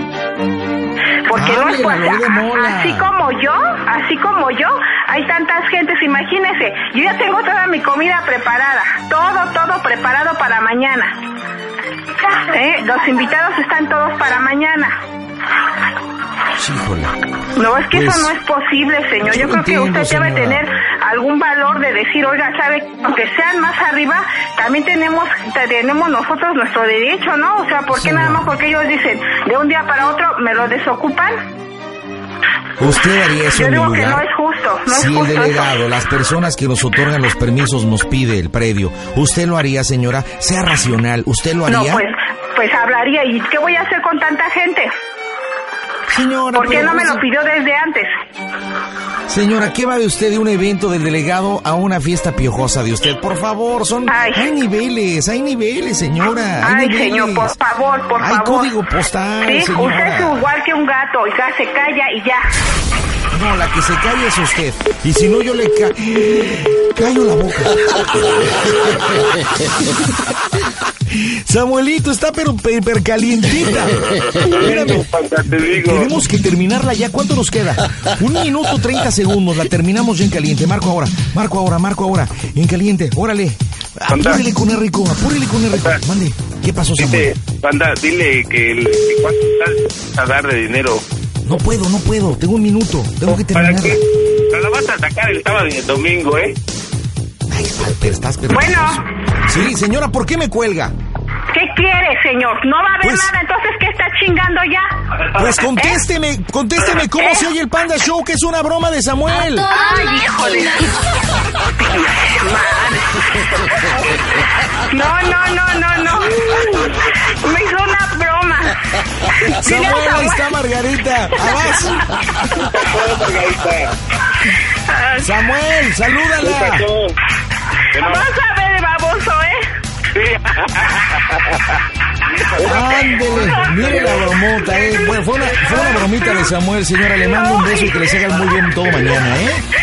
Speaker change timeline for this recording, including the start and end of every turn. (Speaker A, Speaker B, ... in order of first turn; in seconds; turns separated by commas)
Speaker A: 1.3-11.2, Speaker B: 1.3-3.1, Speaker A: 12.3-15.0, Speaker B: 16.6-17.1, Speaker A: 17.6-31.3, Speaker B: 17.9-18.3, Speaker B: 19.2-20.6, Speaker B: 27.9-28.5, Speaker B: 32.8-34.3, Speaker A: 33.5-35.8, Speaker B: 34.9-42.0, Speaker A: 41.7-44.9, Speaker B: 46.1-47.2, Speaker A: 46.5-48.1, Speaker B: 49.3-57.6, Speaker A: 54.1-54.5, Speaker A: 56.6-58.7, Speaker B: 58.2-60.5, Speaker A: 59.5-62.5, Speaker B: 63.3-70.3, Speaker B: 71.1-75.1, Speaker C: 74.4-76.1, Speaker B: 75.7-87.3, Speaker C: 84.1-84.5, Speaker C: 87.0-91.0, Speaker B: 91.5-94.0, Speaker C: 93.5-96.6, Speaker B: 97.5-100.9, Speaker A: 98.5-99.0, Speaker A: 101.5-104.9, Speaker B: 103.0-103.3, Speaker B: 105.3-109.7, Speaker A: 105.7-106.0, Speaker A: 107.2-107.5, Speaker A: 109.7-113.5, Speaker A: 114.7-120.4, Speaker B: 119.5-122.1, Speaker A: 121.5-122.5, Speaker C: 122.6-123.9, Speaker A: 124.7-125.3, Speaker B: 125.2-126.9, Speaker C: 126.4-127.2, Speaker C: 127.9-128.3, Speaker A: 128.0-129.7, Speaker C: 130.1-131.8, Speaker C: 132.6-133.7, Speaker B: 132.6-139.6, Speaker A: 133.7-136.5, Speaker A: 137.3-138.0